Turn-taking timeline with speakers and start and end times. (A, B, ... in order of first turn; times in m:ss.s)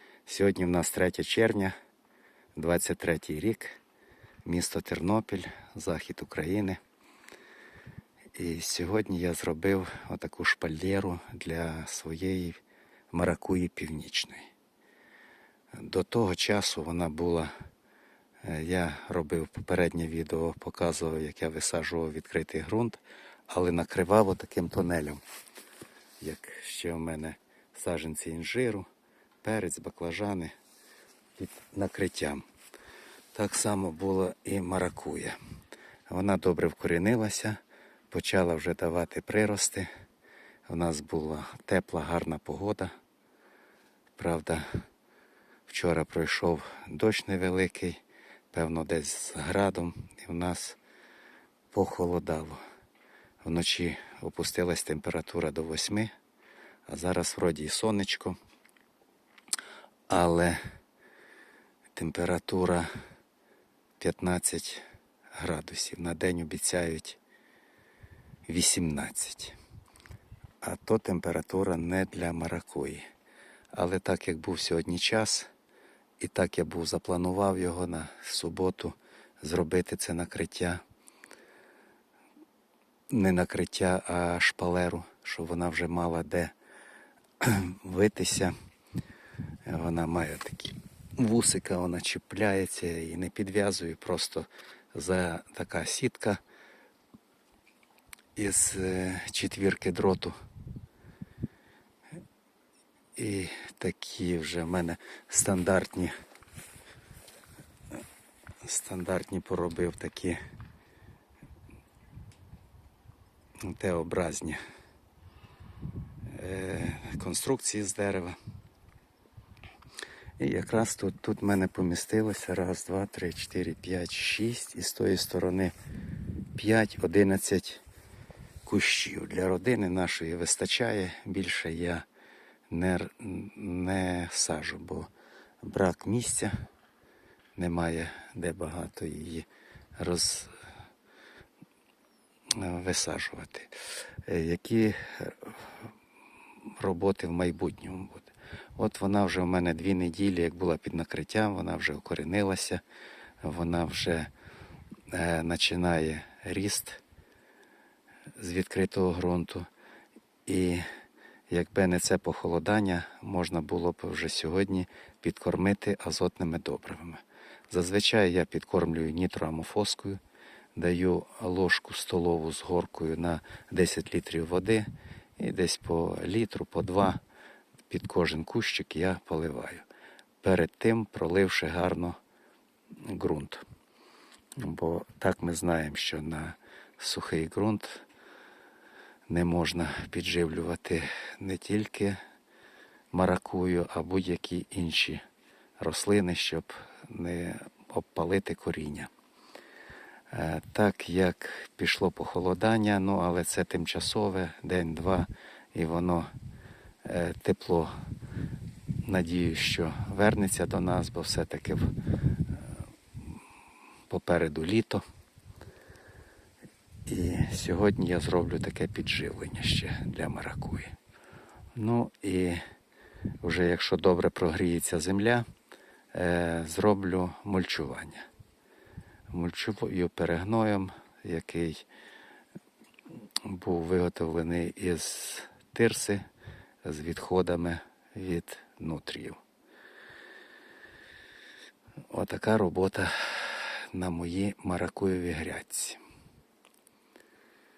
0:00.3-0:01.7 A
0:02.6-0:03.8 A
0:04.4-0:06.8 A
0:08.4-0:12.6 A
0:13.1-0:14.5 A
0:15.8-0:17.5 A
0:18.4-0:25.2 A
0:26.2-0:28.9 A
0:29.4-0:30.5 A
0:31.4-0:32.4 A
0:33.3-0:35.4 A
0:36.1-0:37.6 A
0:38.1-0:39.9 A
0:40.7-0:42.9 A
0:44.2-0:44.7 A
0:45.7-0:48.0 A
0:48.5-0:50.8 A
0:51.7-0:52.6 A
0:53.4-0:56.1 A
0:56.9-0:58.4 A
1:00.1-1:00.6 A
1:02.0-1:02.9 A
1:04.0-1:04.8 A
1:05.4-1:07.2 A
1:08.5-1:09.6 A
1:10.6-1:13.0 A
1:13.7-1:15.5 A
1:16.2-1:20.8 A
1:23.1-1:26.5 A
1:27.4-1:28.5 A
1:29.7-1:36.4 A
1:38.4-1:40.4 A
1:43.2-1:46.1 A
1:48.6-1:50.4 A
1:53.6-1:54.6 A
1:56.3-1:58.4 A
2:00.4-2:05.7 A
2:06.6-2:07.8 A
2:08.6-2:12.0 A
2:12.7-2:15.1 A
2:15.6-2:16.5 A
2:17.6-2:20.5 A
2:22.5-2:25.7 A
2:26.7-2:32.8 A
2:33.4-2:34.3 A
2:35.1-2:37.0 A
2:38.4-2:39.7 A
2:40.5-2:40.8 A
2:41.5-2:50.2 A
2:50.8-2:57.2 A
2:57.9-2:59.9 A
3:00.4-3:02.2 A
3:03.0-3:03.6 A
3:04.6-3:08.0 A
3:09.3-3:12.2 A
3:13.1-3:15.2 A
3:15.8-3:19.1 A
3:20.3-3:26.3 A
3:27.0-3:27.9 A
3:29.0-3:31.9 A
3:34.1-3:35.0 A
3:37.1-3:40.9 A
3:41.8-3:42.6 A
3:43.4-3:45.5 A
3:46.1-3:48.2 A
3:49.3-3:51.8 A
3:53.4-3:56.2 A
3:56.8-3:59.4 A
4:02.1-4:06.0 A